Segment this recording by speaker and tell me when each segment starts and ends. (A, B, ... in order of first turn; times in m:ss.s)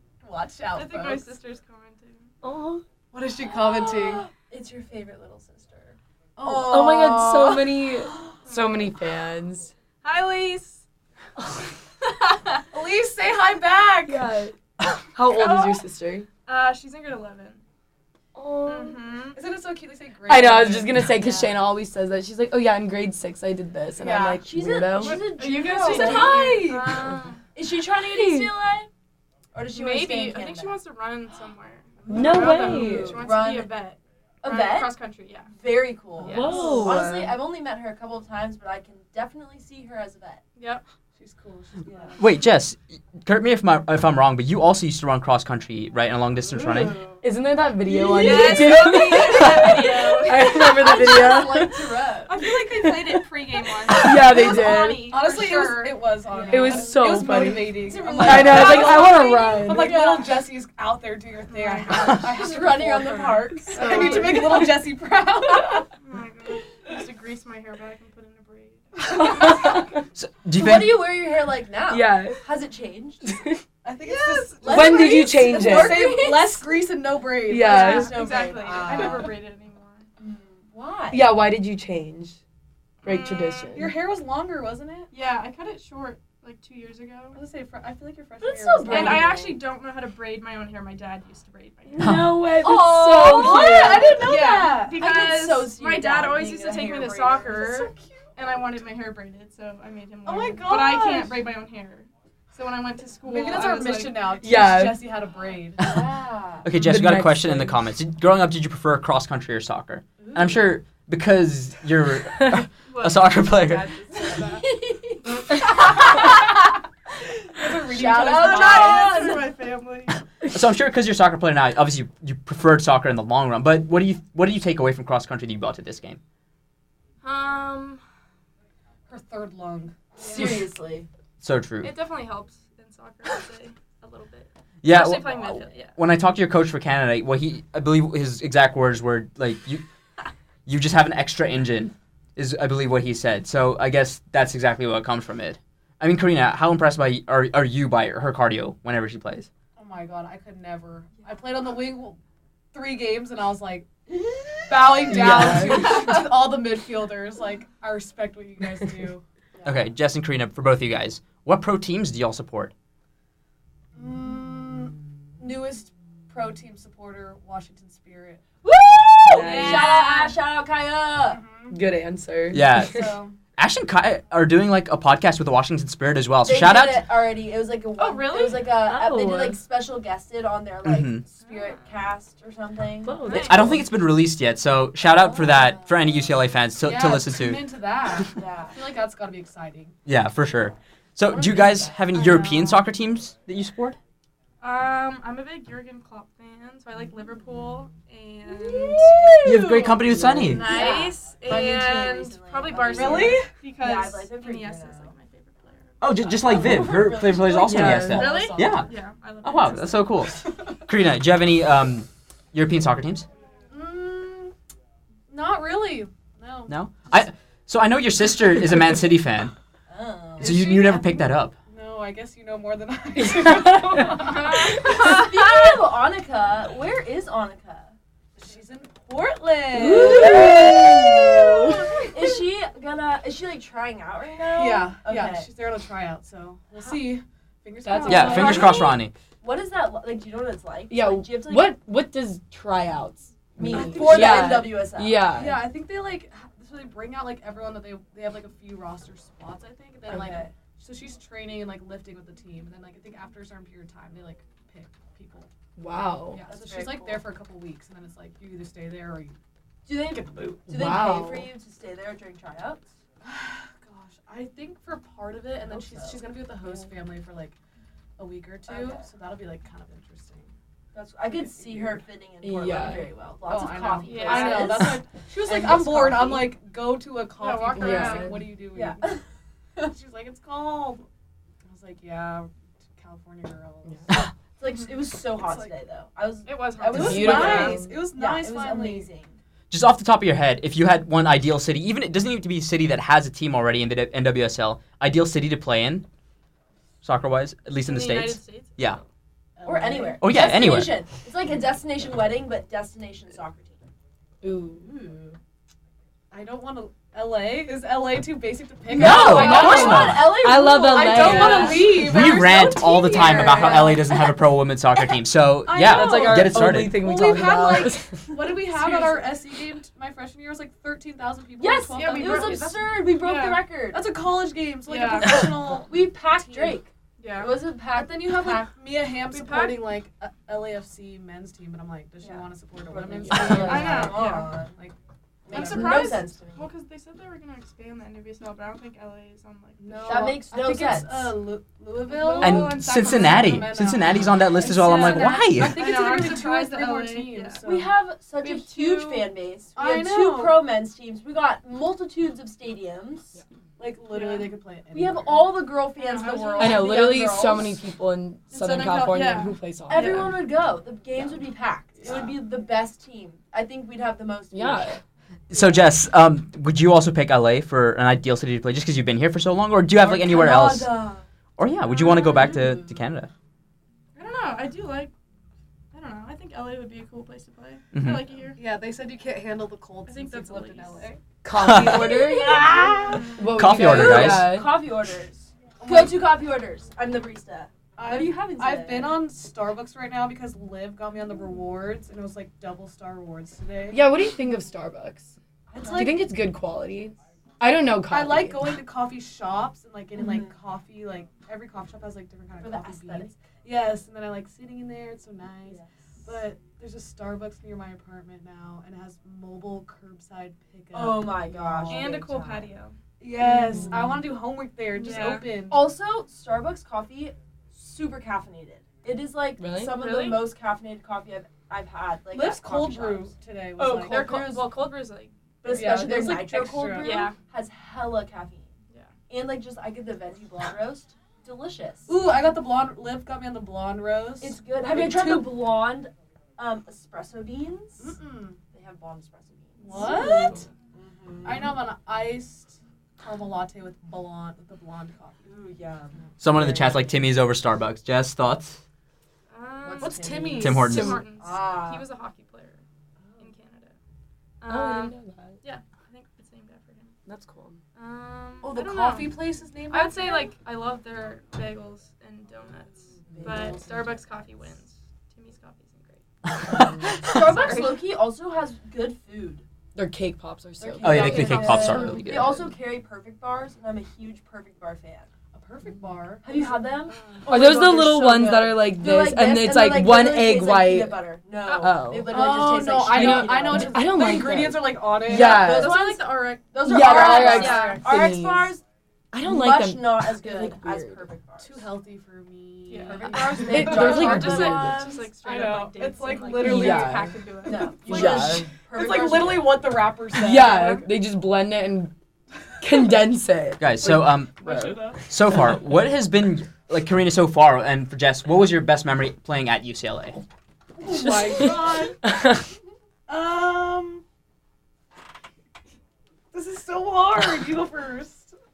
0:00.2-0:01.3 A
0:00.8-0:02.3 B
0:02.4-0:02.8 C
0:03.1-0:04.3 A
0:03.5-0:07.8 D
0:06.4-0:07.2 A
0:06.6-0:09.7 C
0:08.5-0:08.8 B
0:10.0-0:10.8 B
0:12.0-0:12.6 B
0:12.7-0:14.3 A
0:14.1-0:14.6 C
0:15.1-0:16.3 C
0:15.5-0:15.8 B
0:16.5-0:17.6 B
0:18.4-0:19.0 C
0:18.6-0:19.4 B
0:19.4-0:21.3 A
0:20.3-0:25.3 C
0:21.2-0:21.5 D
0:24.0-0:26.5 D
0:25.0-0:27.4 B
0:25.3-0:27.1 A
0:25.9-0:26.6 C
0:27.6-0:28.9 D
0:28.0-0:28.5 C
0:29.5-0:30.8 D
0:29.7-0:36.9 B
0:32.1-0:33.2 C
0:32.1-0:33.7 D
0:32.2-0:33.2 A
0:34.4-0:35.0 D
0:35.5-0:40.4 D
0:36.2-0:37.0 A
0:36.3-0:37.4 C
0:40.6-0:40.8 B
0:41.2-0:42.3 A
0:41.8-0:42.2 D
0:42.2-0:47.0 E
0:46.5-0:47.2 D
0:47.2-0:52.0 C
0:47.9-0:52.2 A
0:48.1-0:50.6 B
0:48.1-0:52.3 D
0:52.3-0:56.2 B
0:52.6-0:53.2 C
0:53.9-0:55.1 C
0:54.4-1:05.9 A
0:56.3-1:00.4 D
0:56.5-1:00.1 C
0:58.4-0:58.9 B
1:01.5-1:02.2 B
1:02.1-1:04.6 D
1:03.8-1:04.4 B
1:03.8-1:04.7 C
1:06.0-1:09.8 B
1:09.2-1:09.9 C
1:10.2-1:11.0 E
1:10.5-1:13.4 D
1:11.9-1:12.4 C
1:13.2-1:13.6 C
1:13.8-1:19.3 A
1:14.1-1:15.0 B
1:14.5-1:16.5 D
1:14.6-1:16.2 C
1:17.5-1:18.2 C
1:17.6-1:19.3 D
1:17.6-1:20.1 B
1:20.2-1:21.3 D
1:21.1-1:22.4 C
1:23.0-1:23.8 B
1:23.0-1:23.9 C
1:23.8-1:25.1 A
1:25.1-1:27.4 B
1:27.3-1:29.4 A
1:28.4-1:29.6 D
1:28.9-1:32.2 B
1:31.9-1:34.2 C
1:32.0-1:32.4 E
1:32.6-1:37.6 D
1:32.9-1:35.0 A
1:34.6-1:44.3 B
1:36.7-1:38.5 A
1:40.3-1:41.4 A
1:43.2-1:45.9 A
1:44.4-1:45.1 C
1:45.8-1:46.7 D
1:46.6-1:53.9 E
1:46.7-1:47.8 C
1:50.2-1:50.6 D
1:52.9-1:53.5 B
1:53.6-1:54.7 A
1:57.5-1:59.8 A
1:57.9-1:59.6 D
1:58.3-2:00.1 B
2:00.4-2:06.2 E
2:07.2-2:08.0 B
2:09.1-2:10.5 A
2:10.2-2:11.1 D
2:11.4-2:11.9 E
2:11.8-2:15.9 B
2:14.8-2:19.8 E
2:20.7-2:29.5 E
2:29.8-2:32.2 A
2:32.7-2:33.9 A
2:34.1-2:35.9 D
2:34.7-2:39.2 A
2:35.1-2:36.2 C
2:39.6-2:42.7 E
2:44.0-2:48.6 A
2:48.6-2:51.4 D
2:49.3-2:49.9 C
2:49.3-2:50.4 B
2:51.3-2:51.8 A
2:51.7-2:53.1 C
2:52.5-2:57.1 E
2:53.0-2:53.3 A
2:56.4-3:03.4 D
2:58.0-2:58.8 B
2:58.7-2:59.6 C
3:00.8-3:01.2 E
3:01.4-3:01.9 B
3:03.0-3:03.8 C
3:03.2-3:03.8 B
3:03.3-3:07.7 E
3:06.8-3:10.0 A
3:08.3-3:08.8 D
3:10.1-3:14.0 E
3:11.4-3:12.8 A
3:14.6-3:19.4 B
3:18.6-3:19.9 D
3:19.4-3:20.6 E
3:20.2-3:20.6 C
3:20.5-3:26.6 B
3:20.5-3:25.1 D
3:22.9-3:23.5 A
3:26.0-3:28.9 E
3:26.4-3:28.2 D
3:26.5-3:28.9 A
3:27.6-3:28.5 C
3:28.1-3:30.2 B
3:29.4-3:33.3 E
3:33.7-3:34.5 A
3:35.3-3:36.7 A
3:36.7-3:39.5 E
3:39.9-3:40.9 D
3:40.4-3:41.6 E
3:40.4-3:45.2 A
3:43.4-3:44.0 C
3:44.4-3:45.1 B
3:44.8-3:47.9 D
3:48.4-3:52.1 A
3:49.7-3:51.7 C
3:49.8-3:55.5 D
3:54.5-3:58.9 A
3:57.8-3:58.8 C
3:58.1-3:59.1 E
3:58.3-3:58.8 D
3:59.4-4:01.8 D
4:00.9-4:05.7 C
4:03.6-4:05.3 D
4:03.6-4:04.7 A
4:05.3-4:15.5 A
4:10.1-4:10.5 D
4:15.8-4:16.4 C
4:16.3-4:19.4 A
4:16.4-4:17.2 D
4:19.9-4:22.9 D
4:20.7-4:21.5 C
4:23.2-4:27.6 A
4:25.6-4:26.8 D
4:28.2-4:30.5 A
4:28.7-4:29.1 D
4:30.9-4:36.6 D
4:32.4-4:33.1 C
4:33.5-4:39.2 A
4:34.0-4:35.0 B
4:37.4-4:38.3 B
4:37.8-4:38.5 C
4:38.7-4:39.2 D
4:39.8-4:41.1 A
4:41.7-4:44.2 A
4:44.6-4:49.3 D
4:45.4-4:45.7 A
4:46.5-4:47.8 B
4:46.9-4:49.1 A
4:46.9-4:48.0 C
4:49.7-4:56.1 E
4:57.0-4:59.0 E
4:57.8-4:59.0 B
4:59.6-5:00.4 A
4:59.6-5:03.8 D
5:00.2-5:01.0 E
5:04.4-5:04.9 C
5:04.9-5:05.4 D
5:06.3-5:10.3 A
5:08.9-5:14.2 D
5:08.9-5:10.4 E
5:09.0-5:12.1 C
5:10.9-5:14.1 A
5:11.3-5:11.8 B
5:11.9-5:17.0 E
5:15.7-5:22.8 A
5:15.8-5:18.6 C
5:18.9-5:19.2 B
5:21.6-5:24.1 D
5:21.9-5:23.7 B
5:23.9-5:26.8 A
5:24.9-5:25.5 B
5:25.8-5:28.7 D
5:27.2-5:27.6 B
5:27.9-5:35.0 A
5:29.3-5:30.0 B
5:32.2-5:34.8 D
5:33.3-5:34.0 C
5:33.5-5:34.5 B
5:35.4-5:36.7 D
5:35.5-5:36.2 A
5:35.5-5:40.4 B
5:39.8-5:47.9 A
5:39.9-5:41.4 D
5:42.1-5:43.8 B
5:42.4-5:45.8 E
5:44.6-5:47.6 B
5:47.6-5:53.4 D
5:48.4-5:49.3 B
5:49.8-5:50.6 A
5:53.8-5:55.5 A
5:54.1-5:54.5 B
5:54.9-5:57.8 D
5:56.0-5:57.1 B
5:56.6-6:00.4 C
5:58.5-6:00.3 B
5:59.9-6:04.9 D
6:02.0-6:02.4 A
6:04.5-6:05.0 C
6:05.5-6:11.0 E
6:10.0-6:11.2 A
6:11.6-6:13.3 E
6:14.2-6:15.1 B
6:15.9-6:18.6 B
6:17.9-6:18.3 E
6:18.6-6:21.2 A
6:20.1-6:21.2 B
6:21.4-6:22.7 C
6:21.6-6:22.2 E
6:21.8-6:29.3 D
6:22.9-6:23.3 A
6:23.1-6:23.4 B
6:23.4-6:24.9 C
6:23.5-6:24.5 E
6:25.8-6:26.2 A
6:28.0-6:34.0 A
6:33.9-6:35.4 C
6:35.7-6:36.2 D
6:35.8-6:36.2 A
6:35.9-6:38.7 C
6:38.1-6:52.1 A
6:40.2-6:40.5 D
6:42.6-6:43.4 D
6:45.6-6:46.0 D
6:50.9-6:52.7 D
6:51.9-6:53.0 B
6:53.2-6:55.9 A
6:53.6-6:54.1 C
6:54.9-6:55.5 B
6:55.7-7:04.8 D
6:59.6-7:00.0 C
6:59.9-7:00.5 B
7:02.3-7:04.4 A
7:03.8-7:05.9 B
7:05.6-7:08.7 D
7:05.6-7:07.2 A
7:07.0-7:07.4 B
7:09.3-7:12.1 D
7:12.1-7:15.7 A
7:14.4-7:18.2 D
7:18.0-7:18.6 A
7:18.7-7:20.1 D
7:19.8-7:20.7 A
7:19.9-7:20.6 C
7:20.0-7:20.6 B
7:20.9-7:21.8 D
7:21.4-7:25.5 A
7:25.4-7:26.9 D
7:26.4-7:28.8 E
7:29.5-7:32.8 B
7:29.8-7:30.8 D
7:30.0-7:30.9 A
7:30.6-7:31.2 E
7:30.8-7:31.2 C
7:31.4-7:32.1 D
7:33.4-7:34.0 B
7:34.6-7:37.2 B
7:34.7-7:35.6 C
7:37.3-7:37.8 C
7:38.0-7:46.2 B
7:38.6-7:40.5 A
7:43.3-7:44.2 D
7:46.6-7:47.2 E
7:47.2-7:48.0 B
7:47.2-7:49.6 D
7:50.0-7:52.6 C
7:50.8-7:55.3 D
7:51.0-7:52.6 E
7:55.5-7:57.8 A
7:56.4-8:04.3 D
7:57.1-7:57.4 B
7:57.5-8:01.2 C
8:01.6-8:02.0 B
8:01.8-8:06.0 C
8:02.3-8:05.8 A
8:05.2-8:08.8 D
8:05.4-8:08.0 B
8:06.8-8:08.8 C
8:07.0-8:08.1 A
8:09.3-8:11.3 C
8:09.4-8:11.9 D
8:11.6-8:21.0 A
8:12.9-8:18.3 B
8:13.1-8:15.0 D
8:13.5-8:15.0 C
8:16.6-8:17.4 C
8:17.6-8:20.0 D
8:18.0-8:18.7 C
8:20.3-8:22.1 C
8:22.8-8:25.0 C
8:23.8-8:24.6 E
8:24.6-8:25.2 A
8:25.2-8:30.4 E
8:31.0-8:32.2 A
8:31.2-8:32.6 C
8:33.3-8:34.2 A
8:36.5-8:38.6 A